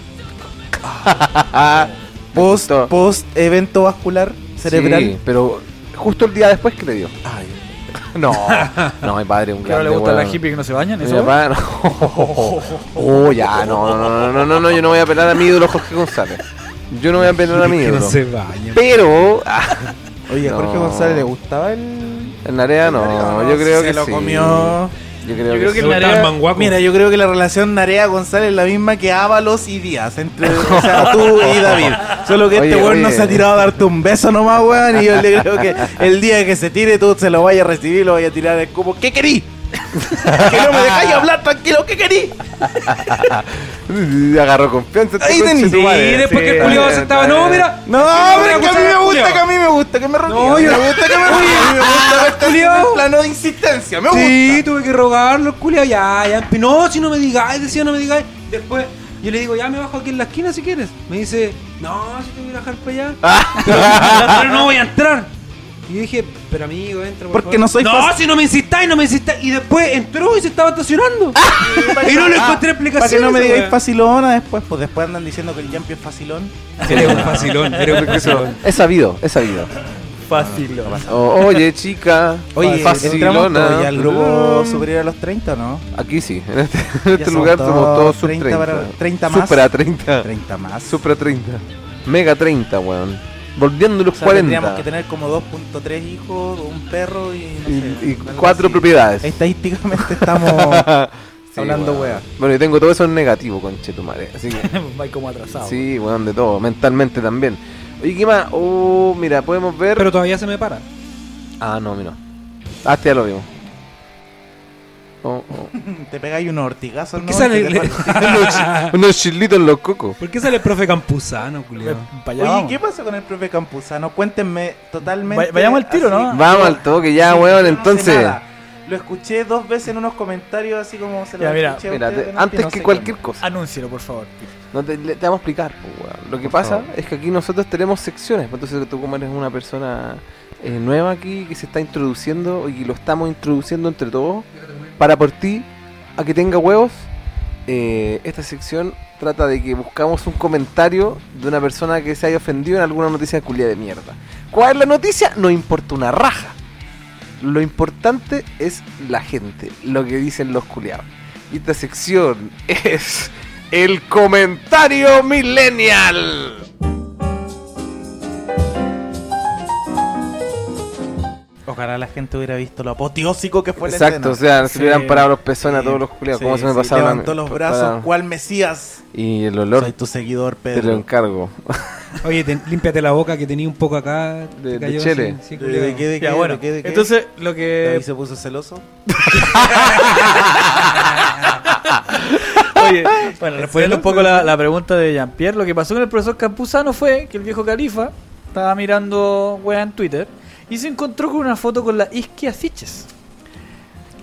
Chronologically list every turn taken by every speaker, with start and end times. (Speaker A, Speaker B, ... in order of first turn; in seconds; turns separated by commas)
Speaker A: 0.8-2.9, Speaker B: 2.3-5.2, Speaker A: 4.6-7.2, Speaker B: 7.2-8.1, Speaker A: 8.1-10.4, Speaker C: 8.5-9.0, Speaker D: 9.6-11.3, Speaker A: 11.0-18.2, Speaker D: 12.1-13.1, Speaker C: 17.2-18.8, Speaker A: 18.7-21.3, Speaker B: 20.3-24.9, Speaker A: 22.4-26.3, Speaker D: 25.4-26.4, Speaker C: 25.8-26.8, Speaker B: 26.5-39.5, Speaker A: 30.5-33.6, Speaker A: 40.0-41.2, Speaker B: 40.0-43.2, Speaker A: 42.6-47.7, Speaker B: 45.2-46.3, Speaker C: 46.0-49.4, Speaker D: 46.0-46.8, Speaker B: 47.8-54.6, Speaker C: 50.2-53.0, Speaker C: 54.1-65.3, Speaker A: 63.2-64.5, Speaker C: 65.9-73.8, Speaker B: 67.3-68.1, Speaker A: 71.5-72.0, Speaker B: 71.5-77.4, Speaker D: 76.8-78.0, Speaker C: 76.8-78.6, Speaker A: 76.8-79.7, Speaker D: 80.2-81.6, Speaker B: 80.3-81.3, Speaker A: 81.0-84.8, Speaker B: 82.5-85.8, Speaker D: 82.6-83.2, Speaker A: 85.9-90.3, Speaker B: 87.1-89.7, Speaker B: 90.2-91.0, Speaker A: 90.9-94.8, Speaker B: 94.1-100.9, Speaker A: 97.7-99.4, Speaker A: 100.0-104.7, Speaker B: 101.5-102.2, Speaker D: 104.5-105.9, Speaker A: 105.6-110.1, Speaker C: 110.0-110.8, Speaker A: 111.6-112.2, Speaker A: 112.8-113.5, Speaker A: 115.2-115.7, Speaker B: 115.7-118.6, Speaker C: 117.2-119.0, Speaker A: 118.0-120.2, Speaker C: 120.2-122.1, Speaker D: 121.8-122.8, Speaker B: 122.3-133.2, Speaker D: 125.2-126.8, Speaker A: 126.3-128.4, Speaker D: 131.4-131.8, Speaker A: 131.9-133.4, Speaker D: 133.4-134.5, Speaker A: 134.7-147.1, Speaker B: 136.4-136.9, Speaker A: 147.7-156.6, Speaker A: 157.4-166.7, Speaker B: 171.7-174.4, Speaker A: 173.8-178.1, Speaker D: 174.7-175.3, Speaker B: 175.6-179.0, Speaker A: 179.1-179.9, Speaker B: 179.7-181.1, Speaker A: 180.7-182.1, Speaker C: 182.2-186.1, Speaker A: 184.5-185.4, Speaker B: 185.5-187.1, Speaker D: 186.2-188.1, Speaker B: 187.8-188.8, Speaker D: 189.2-203.1, Speaker A: 189.6-190.5, Speaker C: 193.5-194.5